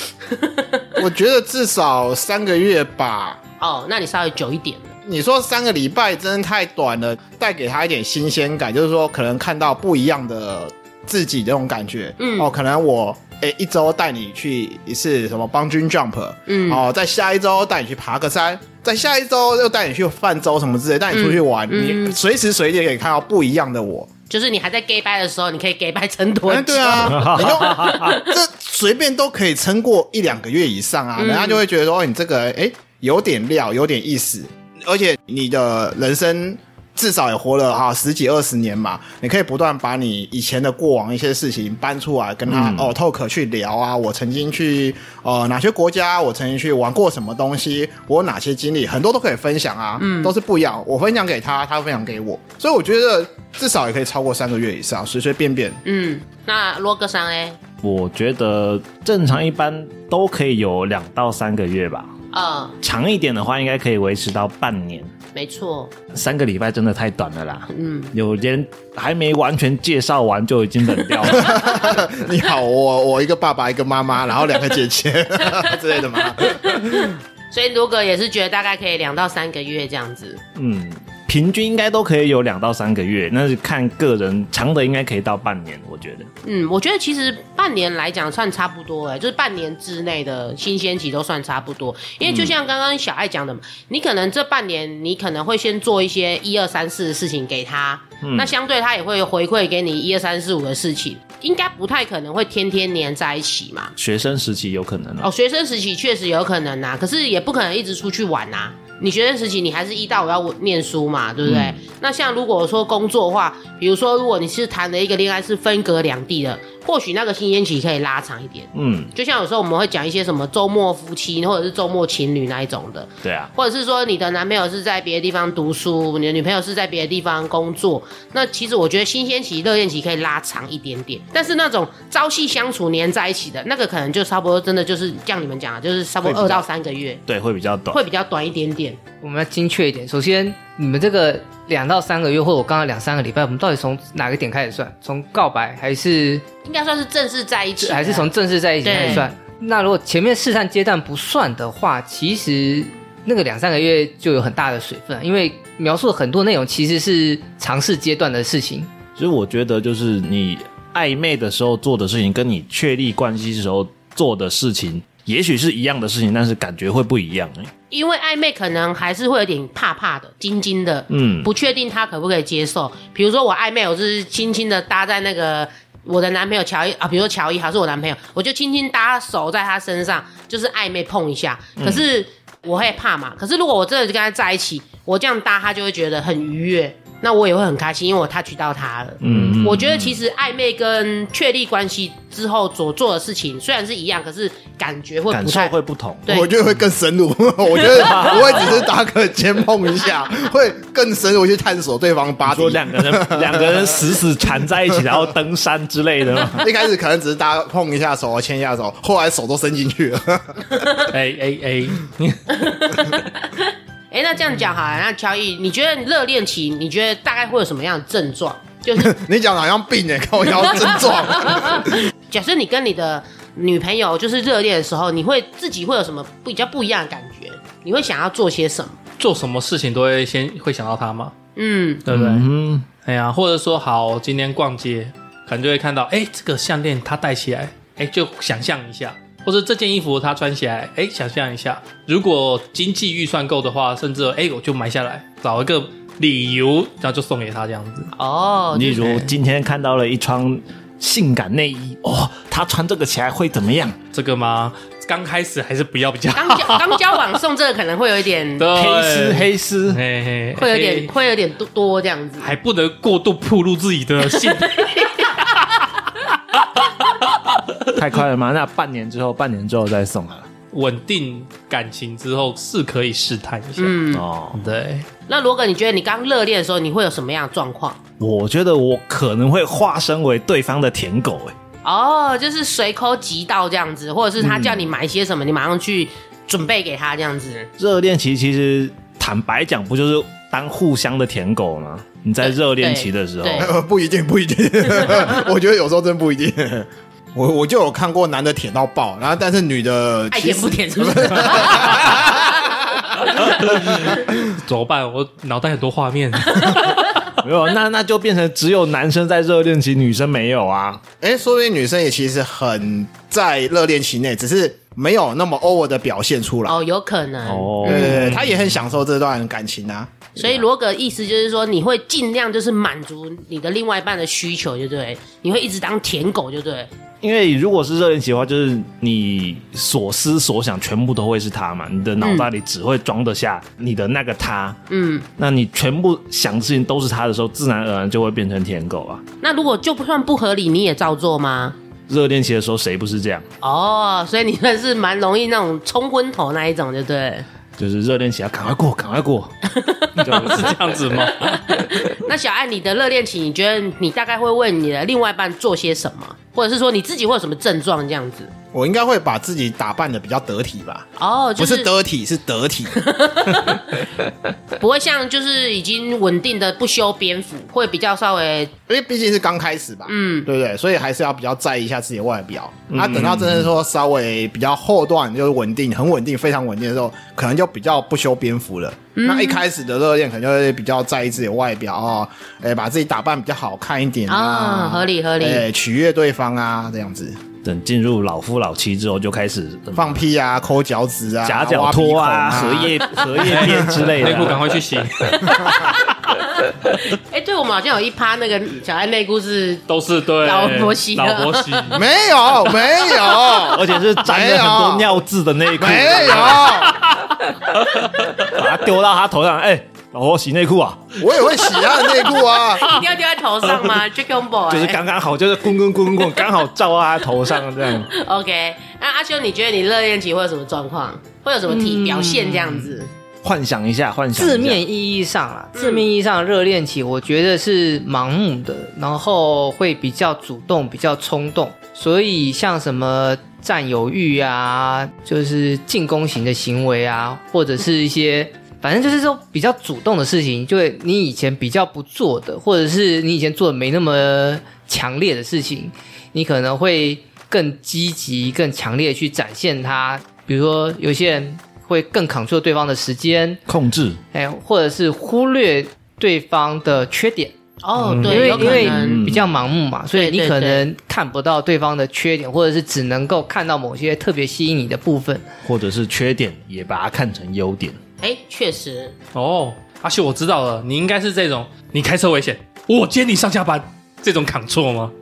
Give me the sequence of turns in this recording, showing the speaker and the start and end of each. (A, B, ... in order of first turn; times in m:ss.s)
0:00.2-0:01.0 A
0:01.0-0:03.4 B
0:03.6-0:04.9 A
0:05.1-0:24.1 B
0:12.2-0:12.5 A
0:16.5-0:16.8 A
0:21.1-0:22.2 A
0:24.3-0:28.4 A
0:26.5-0:55.8 B
0:27.0-0:28.2 C
0:31.2-0:31.6 A
0:42.5-0:42.9 C
0:50.0-0:50.3 A
0:55.8-0:57.6 A
0:57.8-1:02.1 C
1:02.3-1:02.8 A
1:02.8-1:05.1 C
1:05.3-1:05.9 A
1:06.1-1:11.8 C
1:07.7-1:08.1 A
1:11.4-1:17.1 B
1:16.2-1:20.4 A
1:20.5-1:26.3 C
1:26.4-1:43.9 A
1:32.2-1:32.5 C
1:38.2-1:38.5 C
1:44.0-1:45.3 C
1:45.2-2:17.2 A
1:51.4-1:51.8 C
1:58.7-1:59.1 C
2:03.2-2:03.5 C
2:16.2-2:16.6 C
2:17.3-2:18.0 C
2:17.9-2:19.0 A
2:19.2-2:26.4 D
2:26.6-2:28.3 A
2:27.8-2:38.9 D
2:28.8-2:29.3 A
2:39.2-2:47.7 C
2:47.9-3:16.5 A
2:51.1-2:51.5 C
3:01.8-3:02.0 C
3:09.2-3:10.2 C
3:15.3-3:16.3 C
3:16.3-3:24.0 B
3:17.9-3:18.8 C
3:22.5-3:26.7 C
3:26.5-3:30.7 B
3:31.1-3:33.2 E
3:32.5-3:39.2 A
3:38.9-3:41.9 B
3:40.6-3:49.0 A
3:49.2-3:51.3 E
3:51.6-3:52.0 A
3:52.0-3:52.5 E
3:52.1-3:52.9 C
3:53.0-4:08.1 E
4:08.2-4:09.3 A
4:08.7-4:14.0 C
4:14.1-4:17.1 E
4:16.3-4:18.7 A
4:18.6-4:21.1 E
4:18.7-4:20.0 C
4:20.6-4:22.5 A
4:22.4-4:25.8 E
4:24.8-4:25.2 A
4:28.0-4:30.5 C
4:30.7-4:34.0 E
4:33.8-4:34.2 A
4:34.1-4:34.6 C
4:34.5-4:35.1 E
4:35.3-4:38.0 A
4:38.2-4:41.5 C
4:41.8-4:47.7 A
4:44.4-4:44.9 C
4:47.8-4:53.7 C
4:52.4-4:53.7 A
4:53.6-5:02.7 B
5:00.3-5:03.5 A
5:03.5-5:07.2 E
5:07.4-5:11.0 C
5:11.2-5:16.8 B
5:16.7-5:18.2 A
5:17.4-5:18.5 C
5:17.8-5:20.3 B
5:20.4-5:20.6 C
5:20.4-5:26.9 A
5:27.2-5:34.8 C
5:32.2-5:32.5 A
5:34.9-5:35.3 A
5:35.4-5:39.2 C
5:39.4-5:41.8 A
5:42.1-5:43.4 C
5:43.6-5:47.4 A
5:47.8-5:49.5 C
5:49.7-5:50.5 A
5:50.2-5:50.8 C
5:50.2-5:51.6 E
5:51.3-5:58.5 A
5:58.7-6:03.0 B
6:01.2-6:01.9 A
6:03.0-6:04.1 A
6:04.7-6:08.7 A
6:08.9-6:27.4 B
6:10.1-6:10.5 A
6:12.9-6:13.7 C
6:19.2-6:19.6 A
6:24.3-6:25.6 A
6:27.6-6:30.2 C
6:29.9-6:33.0 B
6:31.4-6:34.7 C
6:33.4-6:35.7 E
6:33.6-6:33.8 B
6:35.2-6:39.8 A
6:39.9-6:42.0 E
6:40.4-6:42.0 A
6:41.9-6:45.1 B
6:43.7-6:47.3 C
6:45.7-6:47.0 B
6:47.9-6:51.2 C
6:51.2-6:53.0 B
6:51.7-6:55.0 A
6:54.7-6:58.1 C
6:57.8-7:03.1 A
7:01.7-7:03.0 D
7:03.4-7:04.8 C
7:04.4-7:33.6 D
7:05.8-7:06.0 A
7:33.7-7:34.2 C
7:34.3-7:37.5 D
7:37.8-7:39.3 A
7:38.0-7:38.5 E
7:38.2-7:45.5 D
7:38.4-7:39.5 C
7:40.1-7:40.8 A
7:45.6-7:48.0 C
7:48.2-7:49.1 A
7:49.3-7:55.1 E